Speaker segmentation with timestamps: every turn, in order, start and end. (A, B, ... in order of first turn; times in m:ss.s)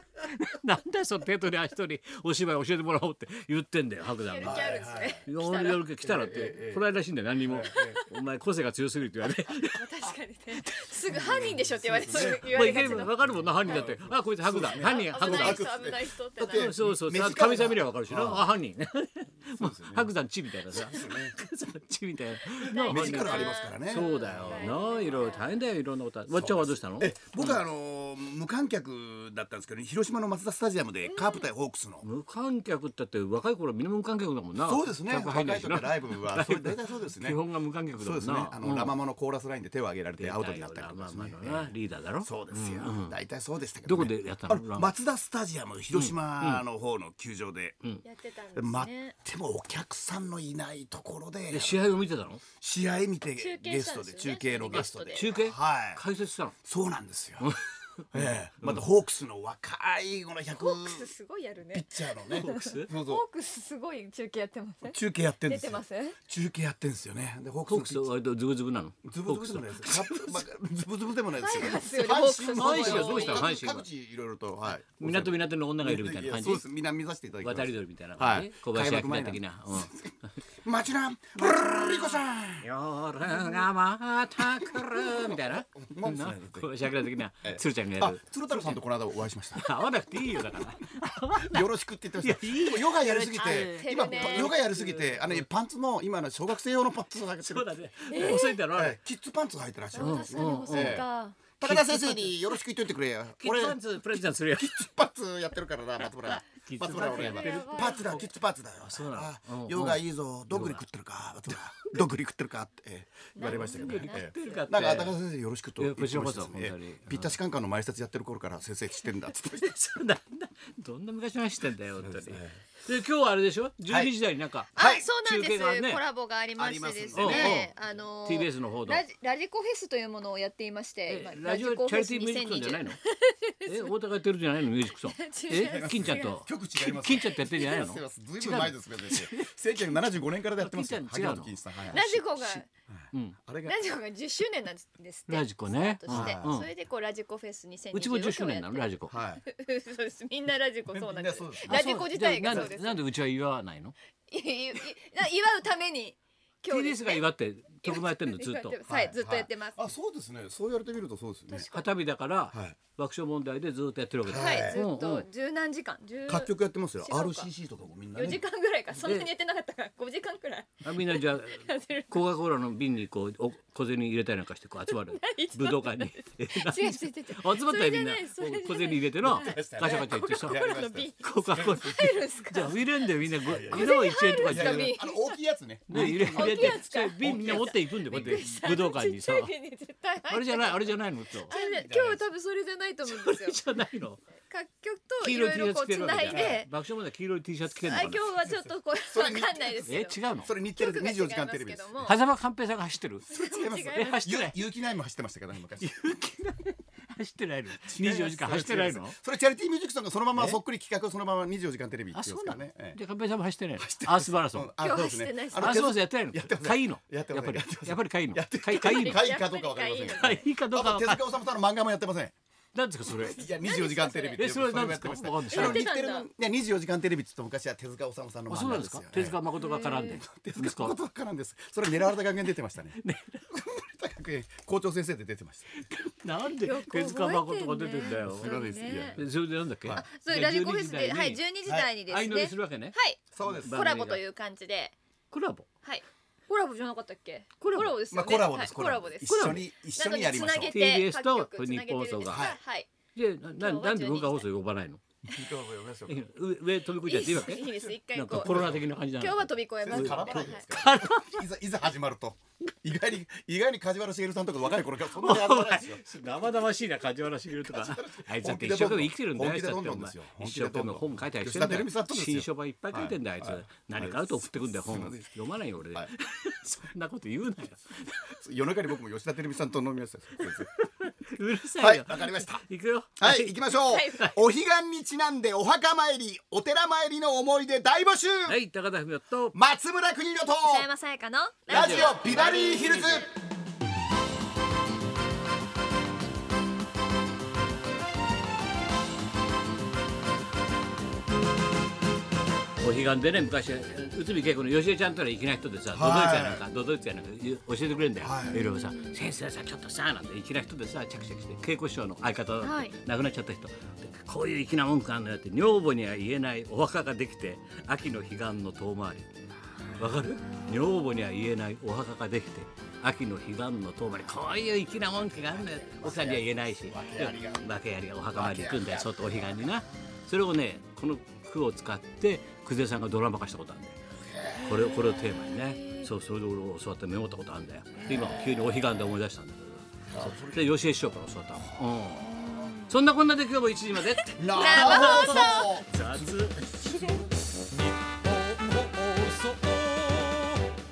0:00.2-0:04.7 A
0:04.2-0:05.8 B
0:04.4-0:05.2 C
0:05.2-0:10.1 A
0:06.0-0:06.8 C
0:07.4-0:08.0 C
0:07.8-0:08.1 B
0:09.7-0:13.9 B
0:11.0-0:18.6 C
0:12.1-0:15.7 A
0:14.6-0:16.7 B
0:16.5-0:27.6 A
0:19.4-0:20.1 C
0:20.7-0:21.4 C
0:22.6-0:25.6 B
0:22.9-0:24.6 C
0:26.3-0:32.0 C
0:31.1-0:31.4 B
0:32.0-0:38.9 A
0:34.6-0:37.4 C
0:37.9-0:47.8 C
0:40.2-0:43.1 A
0:43.8-0:44.9 A
0:45.9-0:46.6 A
0:48.0-0:49.2 B
0:48.5-0:51.8 C
0:51.5-0:52.4 A
0:52.6-0:56.0 C
0:53.4-0:55.3 B
0:54.7-0:56.5 A
0:56.6-0:57.6 C
0:57.4-0:58.8 A
0:58.1-1:01.1 C
1:00.6-1:06.2 B
1:01.7-1:03.2 C
1:02.4-1:02.9 A
1:04.8-1:08.1 C
1:07.7-1:10.4 A
1:09.0-1:22.6 C
1:11.4-1:13.5 B
1:12.5-1:13.8 A
1:15.0-1:16.6 A
1:17.4-1:19.9 A
1:21.4-1:28.8 A
1:23.3-1:23.6 C
1:24.6-1:26.7 C
1:27.4-1:30.7 C
1:29.6-1:31.6 A
1:31.4-1:37.7 C
1:32.2-1:35.5 A
1:33.4-1:34.5 B
1:37.4-1:39.0 A
1:38.1-1:38.6 B
1:38.2-1:41.0 C
1:39.9-1:41.4 B
1:40.0-1:41.0 A
1:41.6-1:43.8 C
1:41.6-1:42.6 A
1:43.4-1:44.8 A
1:44.5-1:59.7 C
1:46.6-1:48.3 A
1:46.9-1:48.3 B
1:48.8-1:50.8 A
1:51.5-1:52.0 A
1:53.3-1:54.7 B
1:53.4-1:55.2 A
1:55.8-1:57.4 A
1:59.5-2:06.0 A
2:02.0-2:02.5 C
2:04.7-2:14.0 B
2:04.8-2:05.0 C
2:06.6-2:07.6 C
2:07.1-2:07.7 A
2:08.2-2:09.0 A
2:11.1-2:13.0 A
2:13.6-2:19.5 A
2:15.0-2:16.4 B
2:15.5-2:22.0 C
2:17.2-2:17.8 B
2:20.6-2:23.4 A
2:21.9-2:22.7 B
2:22.9-2:23.8 C
2:23.6-2:33.0 B
2:25.3-2:26.7 A
2:26.1-2:26.6 C
2:27.9-2:29.1 A
2:29.1-2:29.4 C
2:30.9-2:31.8 C
2:31.6-2:33.9 A
2:32.5-2:32.7 C
2:34.3-2:37.3 B
2:36.7-2:38.8 A
2:37.8-2:39.9 B
2:38.9-2:41.7 C
2:41.5-2:41.9 B
2:41.7-2:45.2 A
2:42.5-2:42.8 C
2:44.2-2:44.8 C
2:44.3-2:47.5 B
2:46.3-2:48.4 C
2:48.1-2:52.4 B
2:49.0-2:49.3 A
2:50.8-3:00.6 A
2:54.9-3:02.9 B
2:59.2-3:02.2 C
3:01.2-3:04.9 A
3:03.4-3:08.6 C
3:03.6-3:05.4 B
3:05.9-3:09.5 A
3:05.9-3:13.8 B
3:10.3-3:11.5 A
3:11.5-3:12.2 C
3:13.1-3:14.2 A
3:14.4-3:16.7 B
3:15.2-3:18.2 A
3:16.2-3:16.6 C
3:17.8-3:20.2 B
3:18.4-3:22.1 C
3:19.8-3:20.5 A
3:20.7-3:22.1 B
3:22.0-3:23.3 A
3:23.3-3:24.5 B
3:23.3-3:25.9 C
3:23.9-3:24.6 A
3:25.8-3:29.2 A
3:27.8-3:33.0 C
3:32.1-3:34.7 A
3:33.8-3:42.4 C
3:34.8-3:35.8 B
3:35.5-3:39.2 A
3:38.8-3:40.4 B
3:40.2-3:41.3 A
3:42.7-3:43.4 A
3:43.2-3:53.0 C
3:43.5-3:44.5 B
3:44.4-3:45.8 A
3:45.5-3:46.3 B
3:48.5-3:51.0 A
3:49.6-3:50.2 B
3:53.0-3:53.5 A
3:53.5-3:55.9 C
3:55.8-4:01.4 A
3:56.6-3:59.2 B
3:58.3-3:59.2 C
3:59.9-4:04.9 B
4:01.6-4:01.9 C
4:02.1-4:04.2 A
4:03.3-4:03.8 C
4:05.3-4:05.7 A
4:05.8-4:12.9 B
4:07.6-4:08.0 A
4:08.1-4:10.8 C
4:09.3-4:09.7 A
4:10.6-4:12.5 A
4:12.2-4:12.6 C
4:13.1-4:15.0 A
4:13.6-4:14.5 B
4:15.2-4:16.2 C
4:16.1-4:21.4 A
4:17.0-4:20.7 B
4:17.5-4:18.9 C
4:19.8-4:26.1 C
4:25.1-4:38.3 A
4:27.6-4:35.4 C
4:38.3-4:40.7 C
4:40.4-4:44.4 A
4:41.8-4:42.6 C
4:43.2-4:48.6 C
4:43.9-4:44.3 B
4:48.5-4:49.6 A
4:49.5-4:50.9 C
4:50.6-4:53.1 B
4:51.7-4:53.3 C
4:51.7-4:53.3 A
5:02.8-5:19.3 A
5:05.9-5:06.6 C
5:08.2-5:08.6 C
5:08.4-5:09.2 B
5:12.6-5:13.0 B
5:19.8-5:20.2 C
5:20.0-5:34.0 A
5:20.2-5:21.3 B
5:25.0-5:27.8 C
5:28.3-5:29.8 C
5:34.2-5:34.8 C
5:34.6-5:36.1 B
5:34.6-5:46.7 A
5:38.0-5:38.3 C
5:38.1-5:38.5 B
5:40.1-5:40.8 C
5:42.2-5:42.9 B
5:44.2-5:45.8 B
5:44.4-5:47.4 C
5:48.2-5:50.4 A